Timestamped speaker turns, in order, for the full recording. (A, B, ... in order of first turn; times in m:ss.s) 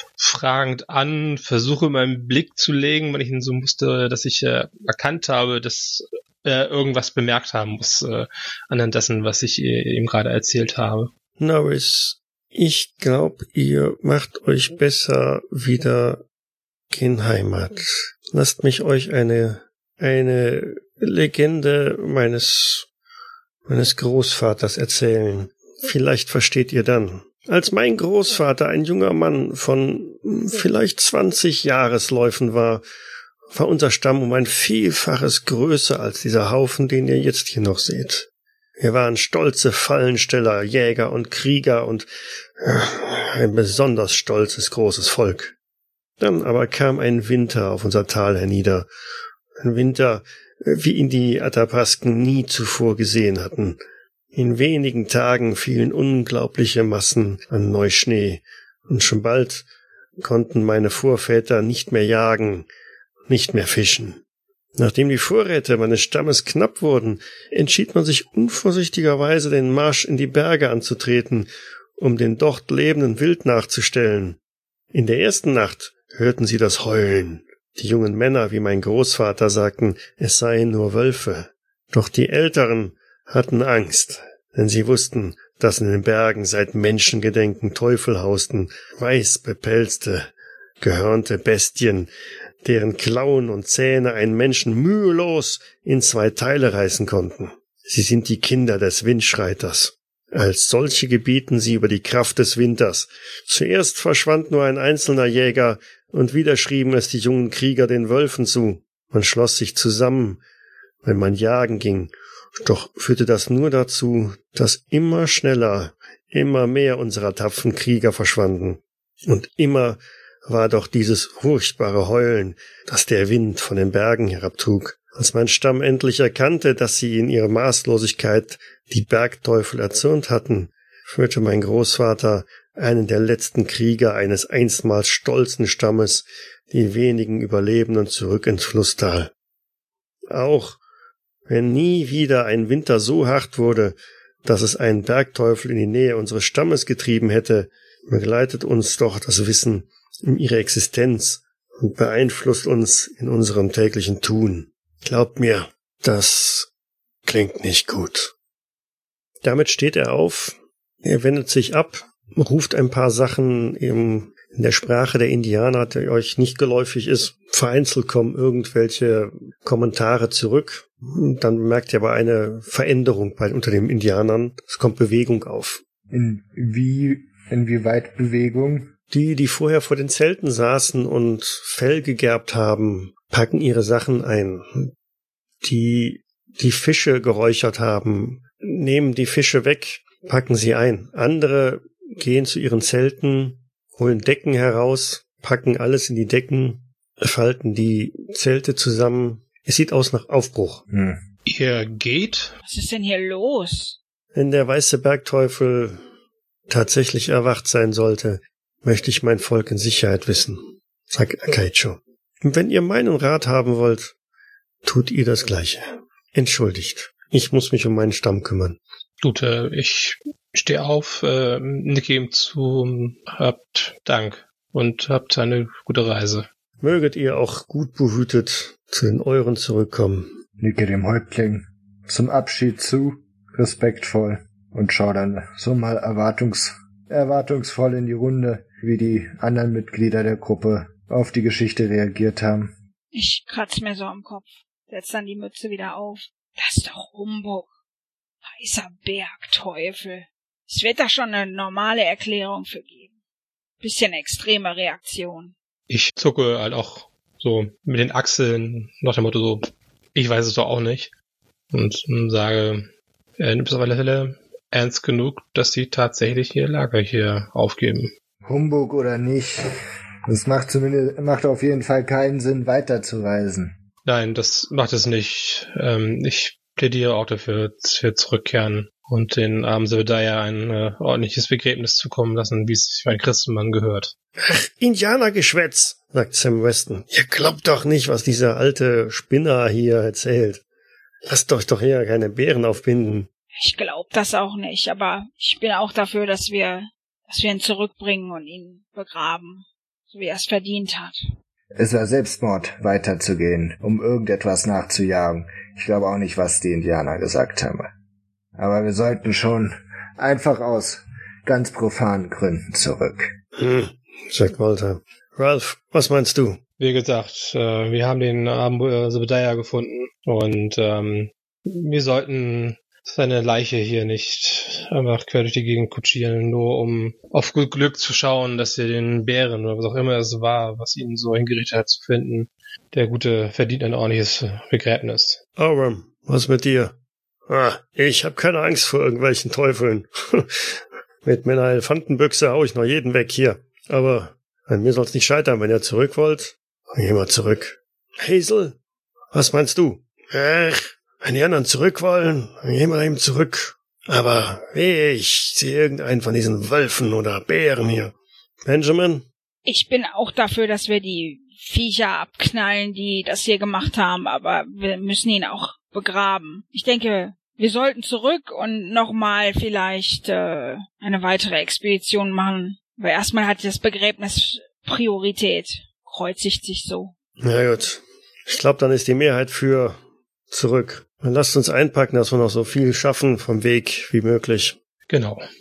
0:00.2-0:11.1 A
0:11.4-0:16.2 B
0:16.9-0:22.9 B
0:23.7-0:32.8 B
0:33.5-0:38.3 B
0:38.8-0:42.1 B
0:42.6-0:45.5 B
0:46.2-0:48.9 B
0:49.6-0:53.8 B
0:54.3-0:59.7 B
1:00.2-1:02.7 B
1:03.3-1:04.2 B
1:04.8-1:14.4 B
1:14.9-1:32.1 B
1:32.6-1:50.4 B
1:51.0-2:19.3 B
2:20.3-2:20.8 B
2:21.5-2:36.7 B
2:37.2-2:38.3 B
2:39.4-2:55.8 B
2:56.1-2:58.9 C
2:59.1-3:04.9 B
3:05.6-3:20.8 B
3:20.9-3:21.2 C
3:21.4-3:22.6 A
3:22.6-3:24.0 D
3:24.3-3:26.0 B
3:26.7-3:34.1 B
3:34.8-3:38.8 B
3:39.2-3:46.5 A
3:46.8-3:50.3 B
3:50.6-4:02.7 C
4:03.1-4:07.7 D
4:08.4-4:13.1 D
4:13.8-4:15.5 D
4:15.9-4:21.1 A
4:21.7-4:28.1 A
4:28.4-4:29.6 C
4:30.3-4:33.7 C
4:34.0-4:44.1 A
4:44.4-4:50.6 B
4:51.2-4:53.3 B
4:53.6-5:01.2 D
5:01.8-5:07.9 C
5:08.6-5:13.3 C
5:13.6-5:16.6 B
5:16.8-5:35.4 A
5:35.6-5:36.9 B
5:37.5-5:48.8 B
5:49.3-5:58.1 B
5:58.6-5:59.2 B
5:59.6-6:17.1 D
6:17.4-6:20.0 B
6:20.5-6:24.8 B
6:25.1-6:25.4 A